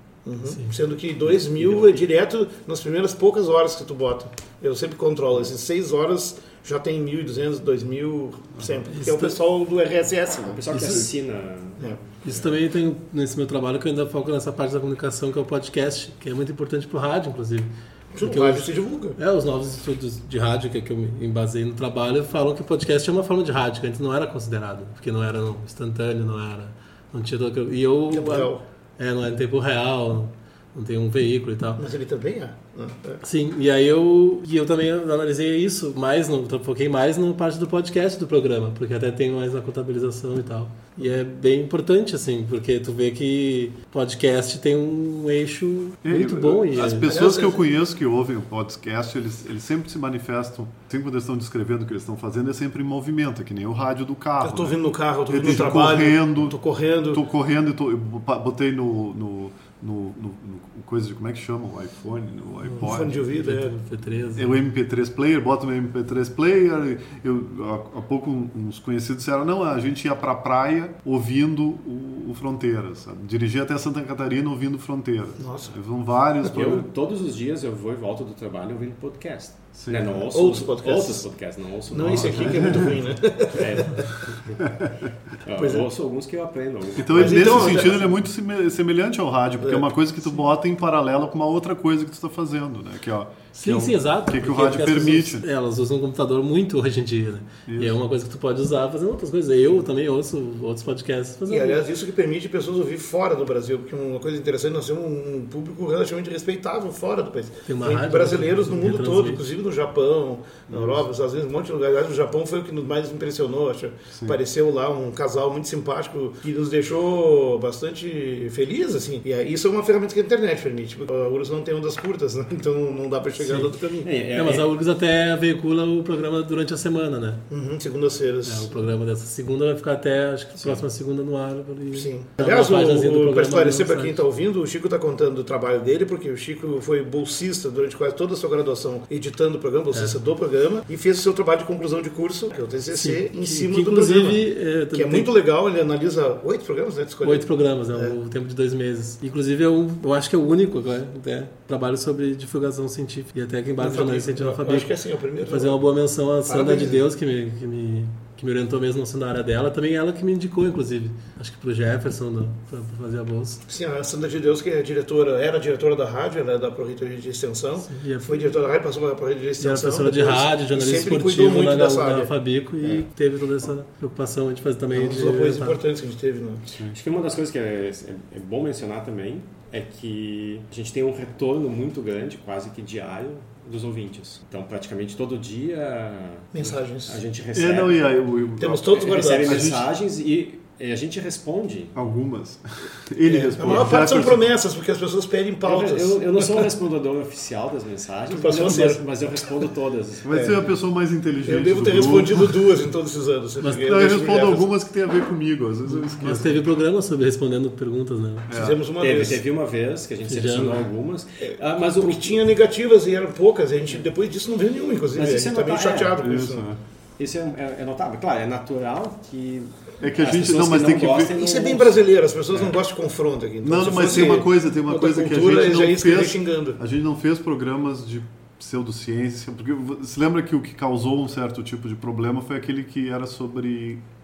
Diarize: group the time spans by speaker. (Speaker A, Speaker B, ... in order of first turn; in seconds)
Speaker A: 0.2-11.1, 18.1-19.2, 28.1-28.6, 31.8-33.2, 47.0-47.6, 54.4-57.2, 62.8-63.7, 75.4-75.7, 80.3-81.2, 81.9-84.1, 85.5-85.9, 87.1-88.1, 101.5-124.1, 127.5-128.7, 131.9-148.2, 153.8-155.8, 156.5-157.0, 163.7-172.3, 174.9-176.7, 186.5-187.2, 188.6-189.7, 193.3-196.7, 198.3-199.0, 201.4-204.7, 208.5-209.4, 211.9-216.7, 221.3-226.8
Speaker B: 0.5-0.7, 8.9-9.4, 10.8-11.0, 12.2-17.7, 18.2-31.8, 33.2-47.1, 62.6-64.5, 93.5-101.8, 107.7-109.4, 123.4-123.7, 124.3-127.4, 128.4-134.2, 139.9-140.2, 142.9-145.3, 147.2-154.9, 155.4-163.6, 167.8-168.5, 169.6-175.8, 205.9-208.5, 210.3-210.8
Speaker C: 1.5-1.9, 10.5-12.5, 76.4-83.0, 83.5-84.6, 85.4-88.0, 124.0-124.7, 176.9-188.1, 188.9-191.9, 195.6-200.5, 209.0-212.4, 215.1-216.2, 217.2-222.8
Speaker D: 46.0-56.6, 57.1-63.2, 64.3-76.9, 79.8-80.2, 82.1-82.9, 84.6-85.0, 87.0-95.5, 97.7-98.0, 110.7-111.0, 187.5-189.9, 191.9-194.4, 200.2-202.6, 203.8-206.7, 208.5-208.8, 216.2-216.8, 220.0-221.4, 223.6-234.0